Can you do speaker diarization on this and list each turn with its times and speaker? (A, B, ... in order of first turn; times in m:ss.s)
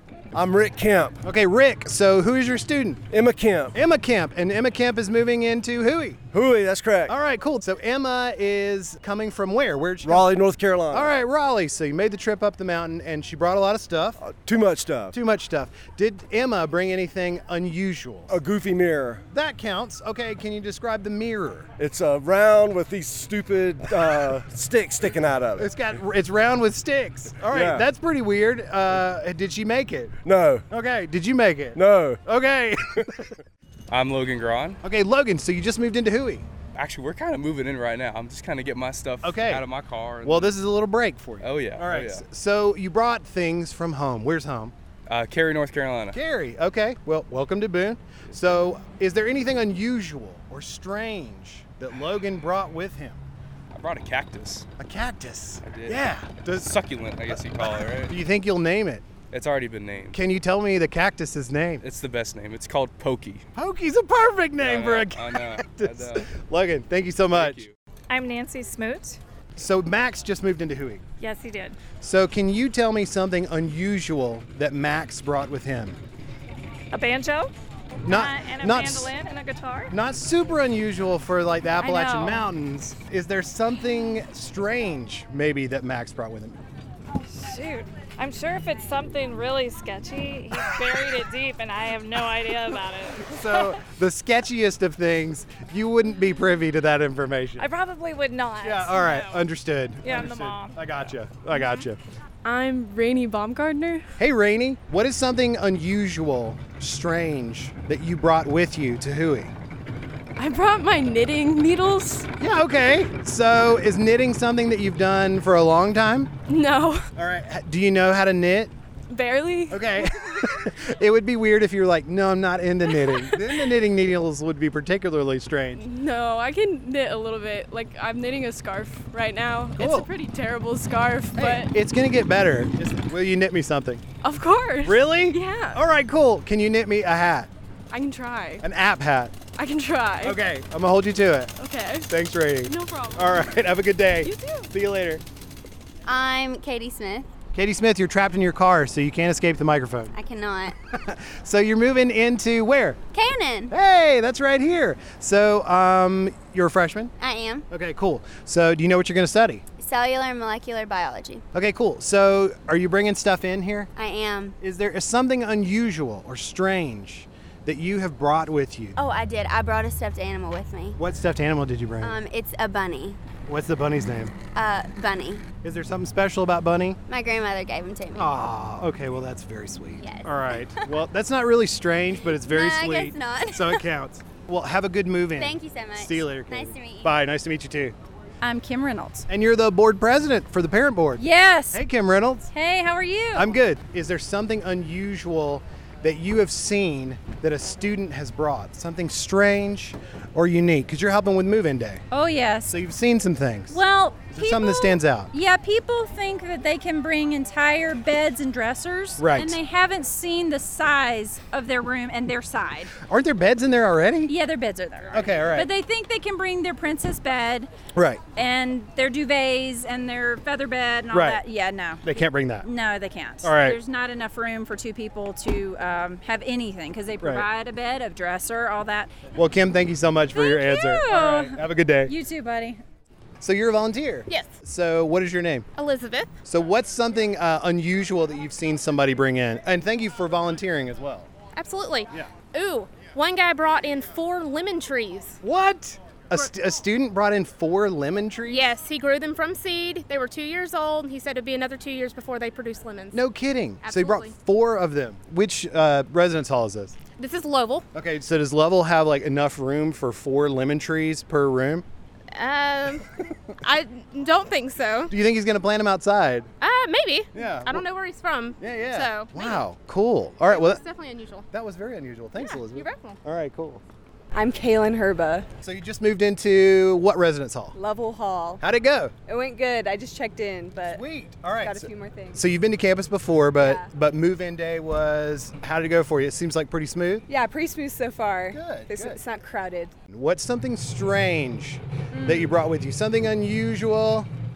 0:00.3-0:01.2 A
0:01.2-0:03.0 B
0:03.1-0:03.8 A
0:03.7-0:06.2 B
0:06.3-0:07.2 A
0:07.1-0:14.2 B
0:10.0-0:11.1 A
0:14.2-0:15.2 A
0:15.1-0:18.4 B
0:18.3-0:19.2 A
0:19.3-0:21.7 B
0:21.8-0:25.8 A
0:25.6-0:30.1 B
0:27.5-0:27.9 A
0:30.2-0:30.6 A
0:30.7-0:33.4 B
0:31.8-0:32.2 A
0:33.9-0:34.8 C
0:34.8-0:36.5 B
0:36.8-0:40.6 C
0:39.2-0:39.7 B
0:40.2-0:44.7 B
0:41.4-0:42.2 C
0:45.1-0:46.2 C
0:46.1-0:53.2 B
0:53.7-0:54.7 C
0:54.8-0:56.8 B
0:55.6-0:58.1 C
0:57.3-0:59.1 B
0:59.3-1:00.2 C
1:00.1-1:01.8 B
1:01.8-1:03.4 C
1:03.6-1:07.6 B
1:04.6-1:06.3 C
1:07.3-1:07.7 C
1:08.1-1:09.2 D
1:09.6-1:11.0 B
1:11.2-1:11.8 D
1:12.0-1:16.0 B
1:16.9-1:17.5 D
1:18.0-1:19.1 B
1:18.1-1:19.9 D
1:19.9-1:26.6 B
1:21.8-1:22.4 D
1:27.3-1:33.6 D
1:33.2-1:37.7 B
1:37.6-1:39.4 D
1:38.6-1:42.0 B
1:40.0-1:41.1 D
1:42.4-1:44.1 E
1:44.2-1:49.5 B
1:50.4-1:52.3 E
1:52.4-1:56.3 B
1:56.5-1:57.1 E
1:57.2-1:58.7 B
1:59.1-2:00.4 E
1:59.7-2:05.8 B
2:03.0-2:03.7 E
2:05.8-2:11.7 E
2:09.8-2:10.1 B
2:11.4-2:14.0 B
2:14.2-2:15.8 E
2:14.8-2:17.5 B
2:17.9-2:18.6 E
2:18.6-2:19.4 B
2:19.6-2:20.4 E
2:20.2-2:21.5 B
2:21.6-2:22.1 E
2:22.1-2:25.2 B
2:22.6-2:23.5 E
2:24.2-2:24.7 E
2:26.1-2:27.3 F
2:27.5-2:30.2 B
2:30.2-2:30.7 F
2:30.9-2:33.0 B
2:33.1-2:33.7 F
2:33.7-2:37.1 B
2:37.2-2:37.6 F
2:37.7-2:39.6 B
2:39.8-2:41.4 F
2:41.5-2:43.9 B
2:44.0-2:44.6 F
2:44.6-2:49.0 B
2:49.0-2:51.0 F
2:51.0-2:52.2 B
2:52.0-2:53.2 F
2:53.4-2:54.4 B
2:54.6-2:55.4 F
2:55.6-2:57.0 B
2:57.1-2:58.3 F
2:58.2-3:08.0 B
3:00.0-3:00.7 F
3:02.2-3:03.8 F
3:05.4-3:07.1 F
3:08.4-3:09.2 G
3:09.3-3:12.5 B
3:11.2-3:11.8 G
3:12.5-3:13.5 G
3:13.3-3:22.0 B
3:22.1-3:22.7 G
3:22.6-3:23.8 B
3:23.7-3:32.9 G
3:24.3-3:25.3 B
3:29.2-3:29.6 B
3:33.0-3:34.3 B
3:34.3-3:37.7 G
3:35.1-3:35.7 B
3:38.0-3:38.2 B
3:38.4-3:42.0 G
3:41.1-3:41.4 B
3:42.0-3:42.7 B
3:42.6-3:49.1 G
3:43.4-3:43.8 B
3:49.3-3:52.1 B
3:50.4-3:50.7 H
3:51.3-3:52.8 G
3:53.4-3:55.7 B
3:54.3-3:54.6 H
3:55.8-3:56.3 H
3:56.5-4:01.3 B
4:01.6-4:05.4 H
4:05.4-4:08.6 B
4:08.5-4:13.2 H
4:13.1-4:17.0 B
4:13.8-4:14.3 H
4:17.2-4:17.9 H
4:17.9-4:21.8 B
4:22.3-4:25.1 H
4:25.1-4:26.5 B
4:26.6-4:29.6 H
4:27.3-4:27.8 B
4:28.6-4:30.8 B
4:30.5-4:31.5 H
4:31.5-4:33.8 B
4:32.3-4:33.2 H
4:34.3-4:35.5 I
4:35.6-4:37.8 B
4:37.8-4:38.6 I
4:38.6-4:39.1 B
4:39.3-4:41.0 I
4:40.9-4:47.3 B
4:41.6-4:42.4 I
4:43.6-4:43.9 I
4:47.3-4:49.9 I
4:48.5-4:49.2 B
4:50.1-4:54.3 B
4:52.1-4:52.6 I